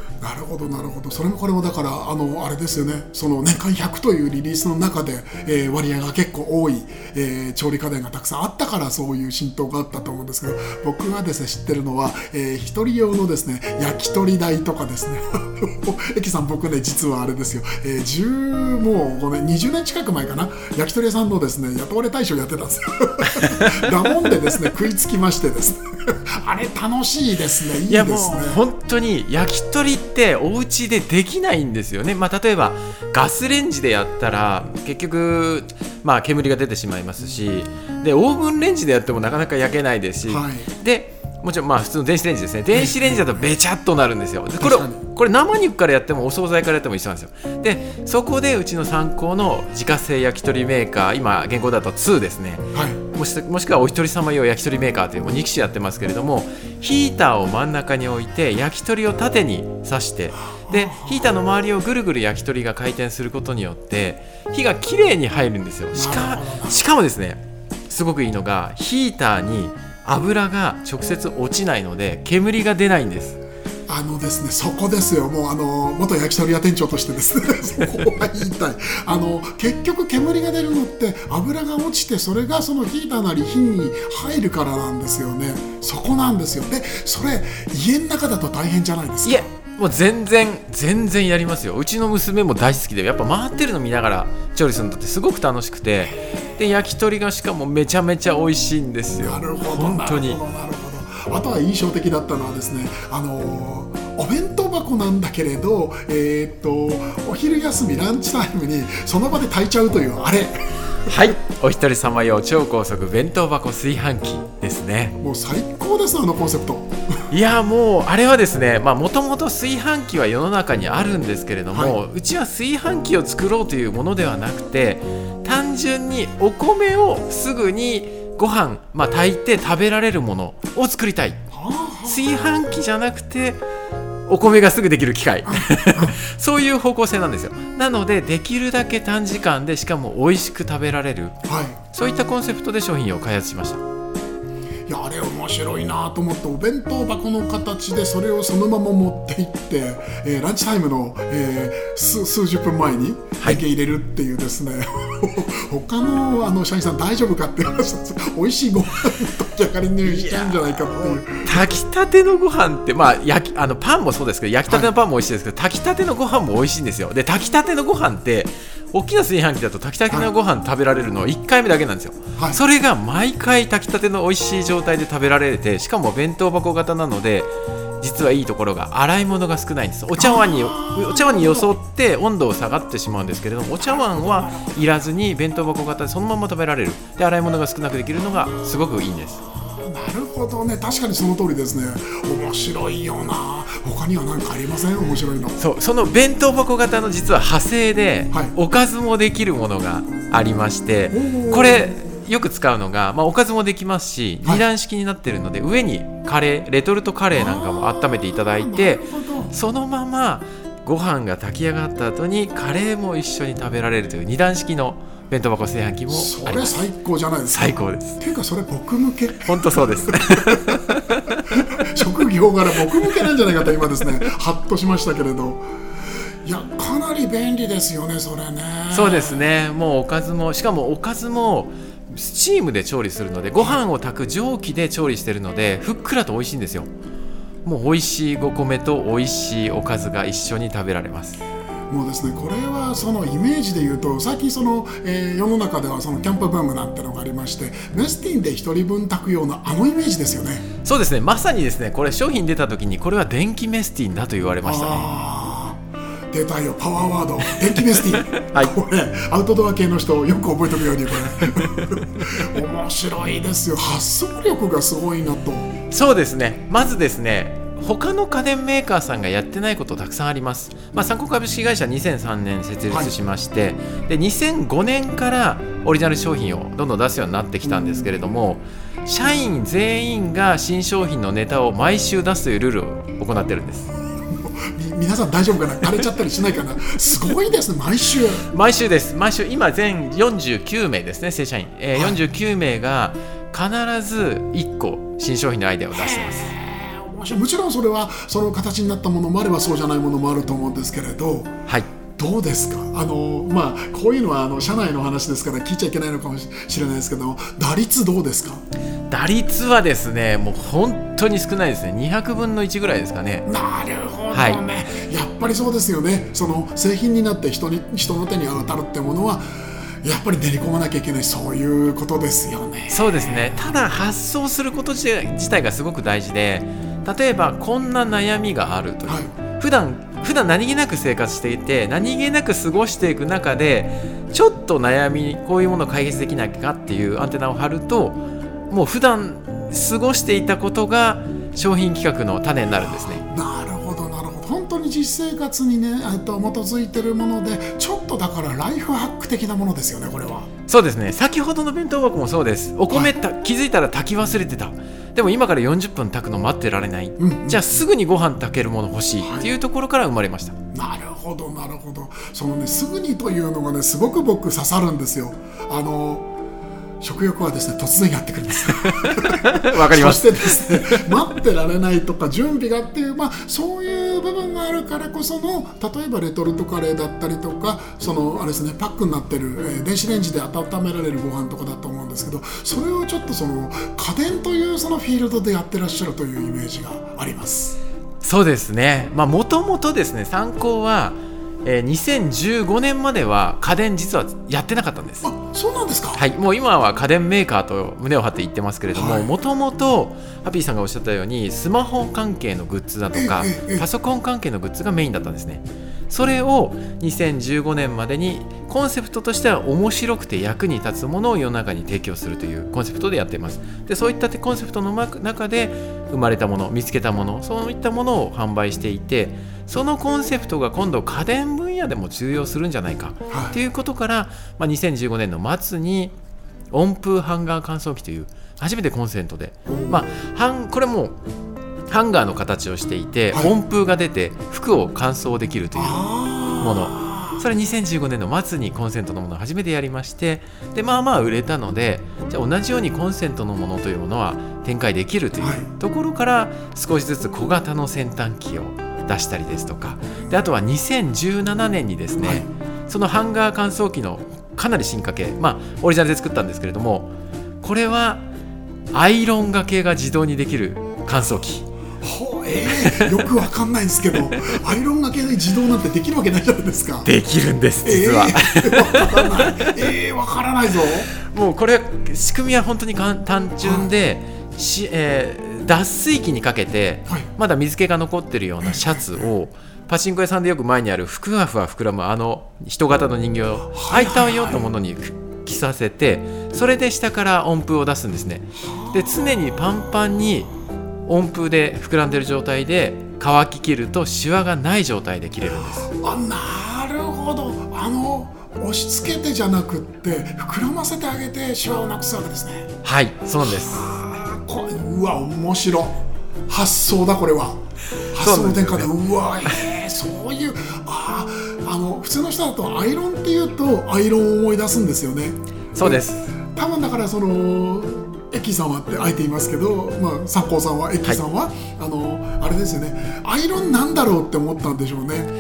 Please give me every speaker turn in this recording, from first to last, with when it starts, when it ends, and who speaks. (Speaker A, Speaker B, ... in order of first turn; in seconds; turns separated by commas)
Speaker A: 0.2-28.6, Speaker B: 23.3-23.9, Speaker B: 27.9-73.4, Speaker A: 40.3-40.7, Speaker A: 42.7-43.3, Speaker A: 44.6-45.0, Speaker A: 52.7-53.0, Speaker A: 60.4-61.3, Speaker A: 65.9-66.8, Speaker A: 73.9-89.5, Speaker B: 89.2-100.4, Speaker A: 96.0-96.5, Speaker A: 99.2-111.1, Speaker B: 111.1-115.2, Speaker A: 115.2-117.2, Speaker B: 117.3-131.4, Speaker A: 131.5-132.3, Speaker B: 132.1-133.6, Speaker B: 134.3-141.4, Speaker A: 135.5-136.2, Speaker A: 141.5-141.8, Speaker B: 141.9-143.8, Speaker A: 144.9-161.7, Speaker B: 160.0-177.5, Speaker B: 178.0-189.4, Speaker A: 180.2-181.8, Speaker A: 183.8-184.9, Speaker A: 189.5-195.6, Speaker B: 195.6-216.8, Speaker A: 201.1-201.9, Speaker A: 207.3-209.5, Speaker A: 216.1-225.6, Speaker B: 217.5-218.2, Speaker B: 219.4-221.7, Speaker A: 226.4-229.4, Speaker B: 228.9-236.9, Speaker B: 237.7-241.4, Speaker A: 241.9-250.7, Speaker B: 250.8-255.1, Speaker A: 254.7-265.7, Speaker B: 257.5-258.7, Speaker B: 265.9-283.9, Speaker A: 277.6-278.2, Speaker A: 284.3-288.5, Speaker B: 288.5-296.5, Speaker A: 291.9-292.2, Speaker A: 295.9-301.6, Speaker A: 302.2-308.6, Speaker B: 309.1-313.5, Speaker A: 313.5-323.6, Speaker B: 314.3-314.6, Speaker B: 322.9-343.2, Speaker A: 329.1-329.3, Speaker A: 342.8-350.5, Speaker B: 350.7-360.6, Speaker A: 357.2-357.8, Speaker A: 359.2-359.5, Speaker A: 360.7-366.3, Speaker A: 367.0-387.8, Speaker B: 368.8-371.1, Speaker B: 388.2-395.3, Speaker A: 395.2-396.3, Speaker B: 396.1-426.1, Speaker A: 398.9-399.3, Speaker A: 403.1-403.9, Speaker B: 426.7-431.2, Speaker A: 429.7-430.0, Speaker B: 431.9-436.1, Speaker A: 435.8-437.4, Speaker B: 436.6-458.3, Speaker A: 445.4-445.7, Speaker A: 452.2-452.5, Speaker B: 458.9-461.7, Speaker A: 462.0-467.1, Speaker B: 462.7-463.1, Speaker B: 467.1-469.7, Speaker A: 467.8-471.1, Speaker B: 471.2-490.5, Speaker A: 473.6-473.9, Speaker A: 478.6-479.3, Speaker A: 483.7-484.7, Speaker A: 488.6-489.8, Speaker B: 491.1-495.9, Speaker A: 495.6-502.7, Speaker B: 502.8-503.9, Speaker A: 503.4-507.6, Speaker A: 508.1-525.3, Speaker B: 508.2-508.9, Speaker B: 515.8-516.3